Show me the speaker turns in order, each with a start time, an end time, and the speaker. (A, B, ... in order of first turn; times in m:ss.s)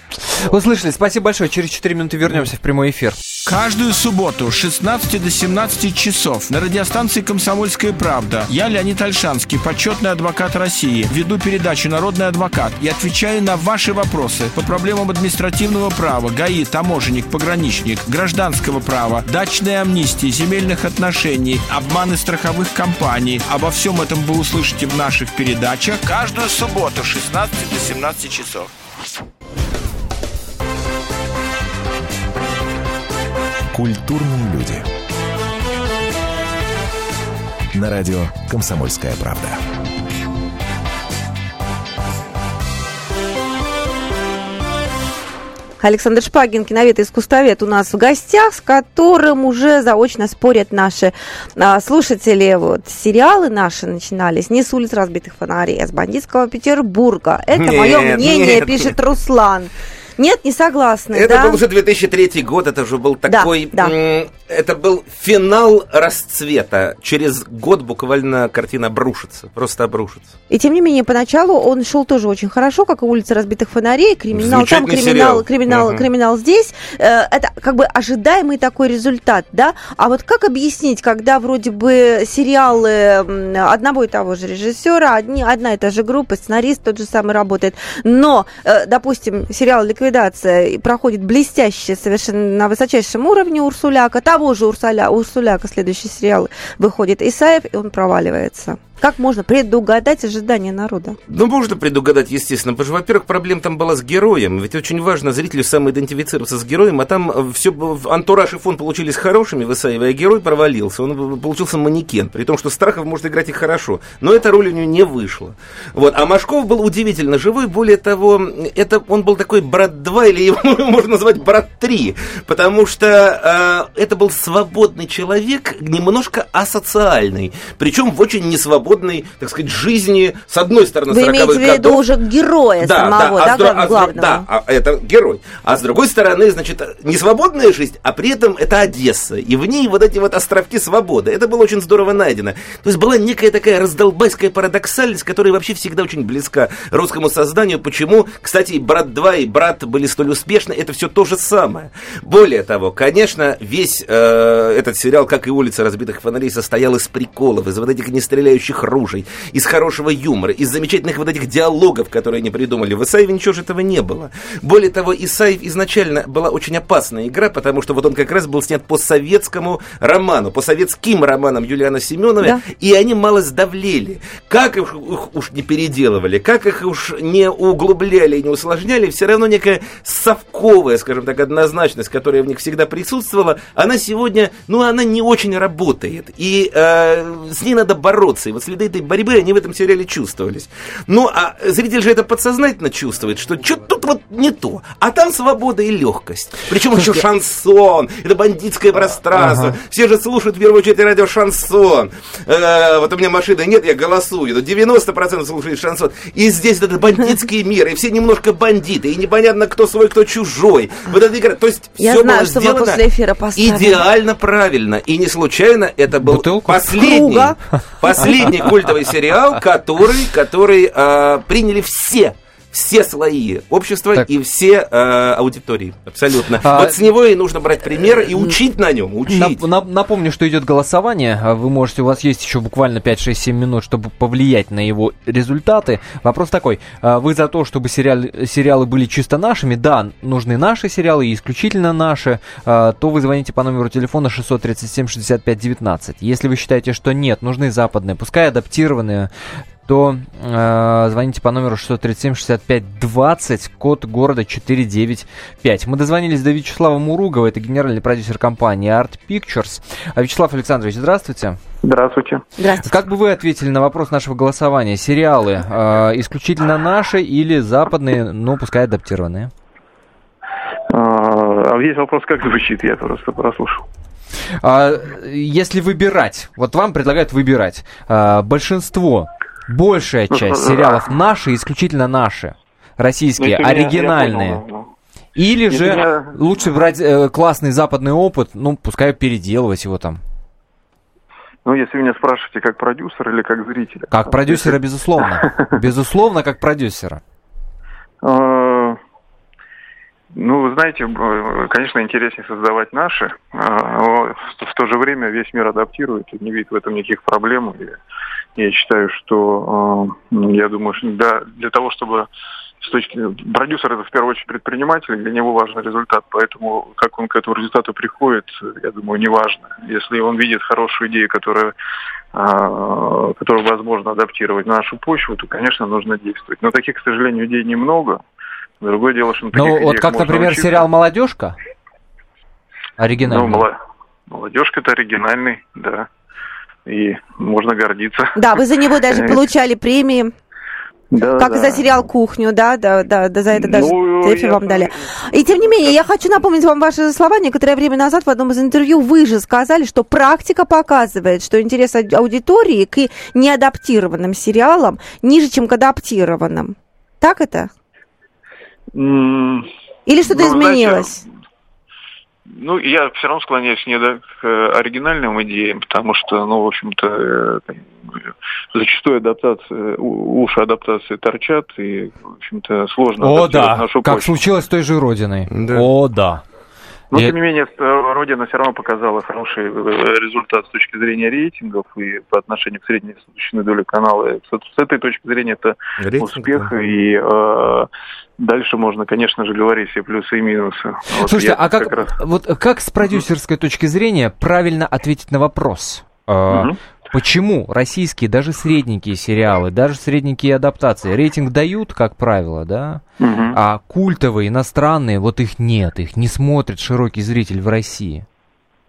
0:00.2-0:03.2 A
0:03.5-0:28.7 B
0:33.7-0:34.8 C
0:37.7-0:39.6 C
0:45.8-1:01.6 D
0:57.5-0:58.9 E
1:01.1-1:10.3 E
1:03.3-1:03.9 D
1:10.5-1:41.2 D
1:14.3-1:16.0 E
1:41.3-2:12.0 E
2:11.1-2:14.4 D
2:12.8-3:33.0 E
3:19.4-3:19.7 A
3:32.0-3:34.0 D
3:33.5-3:49.6 E
3:36.2-3:36.8 A
3:36.9-3:37.6 D
3:46.6-3:47.0 A
3:49.3-4:09.3 A
4:09.8-4:21.6 A
4:21.8-4:22.4 F
4:22.6-4:23.0 D
4:22.8-4:29.5 A
4:30.9-4:33.8 F
4:34.6-4:44.6 A
4:40.3-4:41.1 F
4:43.4-4:44.9 F
4:45.4-4:50.2 A
4:45.7-4:46.3 F
4:51.6-4:55.7 F
4:54.1-4:57.2 A
4:58.2-4:59.0 F
5:00.3-5:08.0 F
5:08.6-5:12.3 F
5:12.8-5:21.7 F
5:22.3-5:28.2 F
5:28.8-5:30.9 F
5:29.5-5:31.6 A
5:33.0-5:33.6 A
5:33.2-5:33.8 F
5:34.3-5:36.1 F
5:36.8-5:38.4 F
5:38.4-5:40.3 D
5:39.1-5:39.4 F
5:41.1-5:41.9 F
5:41.4-5:57.7 D
5:43.5-5:45.9 F
5:58.9-5:59.7 F
6:00.1-6:01.2 D
6:00.3-6:01.2 F
6:02.6-6:14.3 F
6:13.2-6:16.4 A
6:15.5-6:15.8 E
6:17.1-6:32.1 F
6:26.0-6:26.7 E
6:31.2-6:48.2 A
6:36.5-6:36.8 F
6:43.2-6:43.6 F